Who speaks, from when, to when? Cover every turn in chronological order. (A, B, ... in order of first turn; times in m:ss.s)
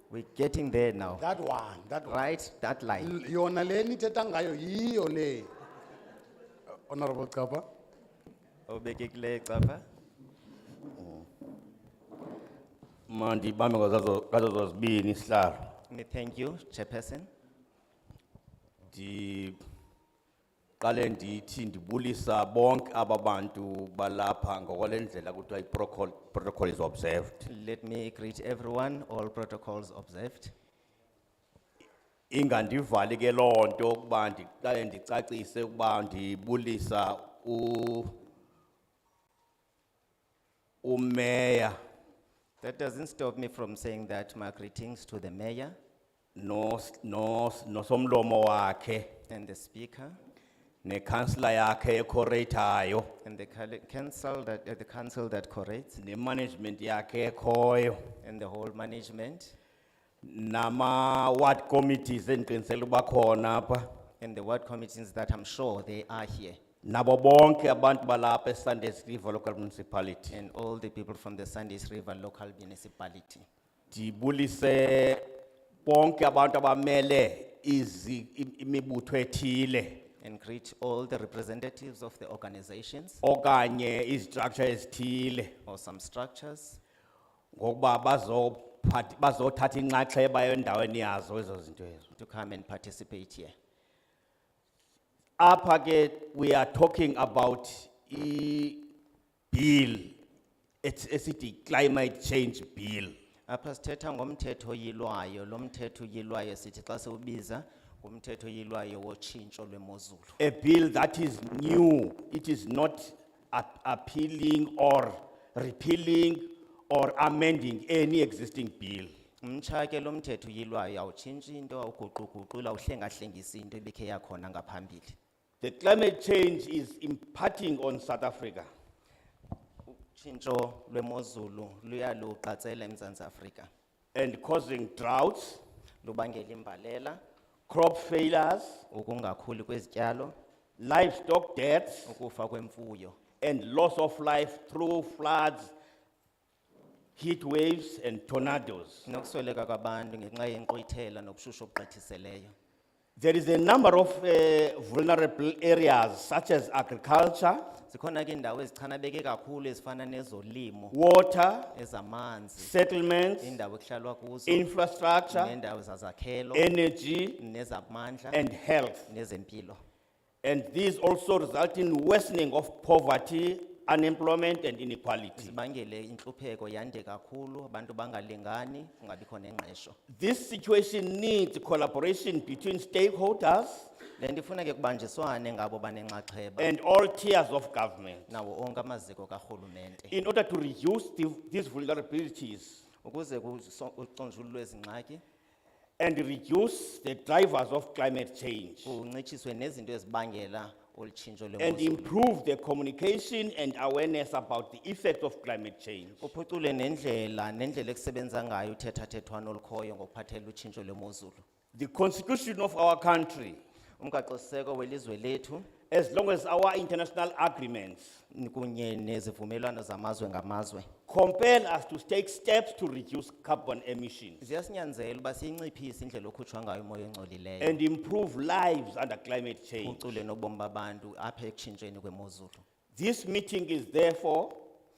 0:00.1-0:01.3 A
0:01.2-0:02.1 B
0:02.0-0:03.1 A
0:03.0-0:05.5 B
0:06.9-0:07.6 B
0:08.7-0:09.8 A
0:11.0-0:11.2 C
0:13.1-0:15.8 C
0:15.9-0:17.3 A
0:18.9-0:19.6 C
0:20.8-0:27.5 C
0:27.4-0:30.5 A
0:32.3-0:38.2 C
0:40.8-0:41.8 C
0:42.6-0:45.8 A
0:46.4-0:49.1 C
0:49.2-0:50.2 A
0:50.8-0:53.1 C
0:53.2-0:56.0 A
0:56.0-0:58.2 C
0:58.2-0:59.6 A
1:00.2-1:03.9 C
1:04.2-1:06.6 A
1:06.8-1:10.4 C
1:10.3-1:13.4 A
1:13.9-1:20.0 C
1:20.2-1:23.2 A
1:23.2-1:25.5 C
1:25.6-1:26.8 A
1:27.5-1:32.1 C
1:32.1-1:33.5 A
1:35.4-1:38.9 C
1:39.5-1:40.2 C
1:40.8-1:43.1 C
1:43.5-1:50.4 A
1:50.4-1:59.1 C
1:59.4-2:05.2 A
2:05.6-2:08.7 C
2:09.8-2:13.7 A
2:14.1-2:15.6 C
2:16.0-2:17.2 A
2:17.7-2:18.8 C
2:18.9-2:20.3 A
2:20.8-2:22.1 C
2:22.0-2:23.2 A
2:23.4-2:25.7 C
2:27.2-2:29.1 C
2:29.0-2:32.5 A
2:33.2-2:37.7 C
2:37.9-2:41.0 A
2:40.9-2:41.7 C
2:41.7-2:42.7 A
2:42.6-2:43.6 C
2:43.4-2:44.7 A
2:44.5-2:45.5 C
2:45.3-2:46.7 A
2:46.5-2:47.4 C
2:47.4-2:48.5 A
2:48.3-2:49.0 C
2:49.0-2:49.8 A
2:50.4-2:55.5 C
2:55.4-3:00.0 A
3:00.1-3:03.9 C
3:04.2-3:06.7 A
3:06.6-3:08.3 C
3:08.3-3:10.2 A
3:10.1-3:12.8 C
3:13.0-3:15.2 A
3:16.0-3:19.0 C
3:18.8-3:22.1 A
3:21.6-3:26.3 C
3:26.2-3:31.4 A
3:31.7-3:33.6 C
3:34.0-3:35.7 A
3:35.9-3:38.2 C
3:38.3-3:40.9 A
3:41.1-3:44.4 C
3:44.4-3:47.8 A
3:47.6-3:50.1 C
3:49.8-3:52.6 A
3:52.9-3:54.7 C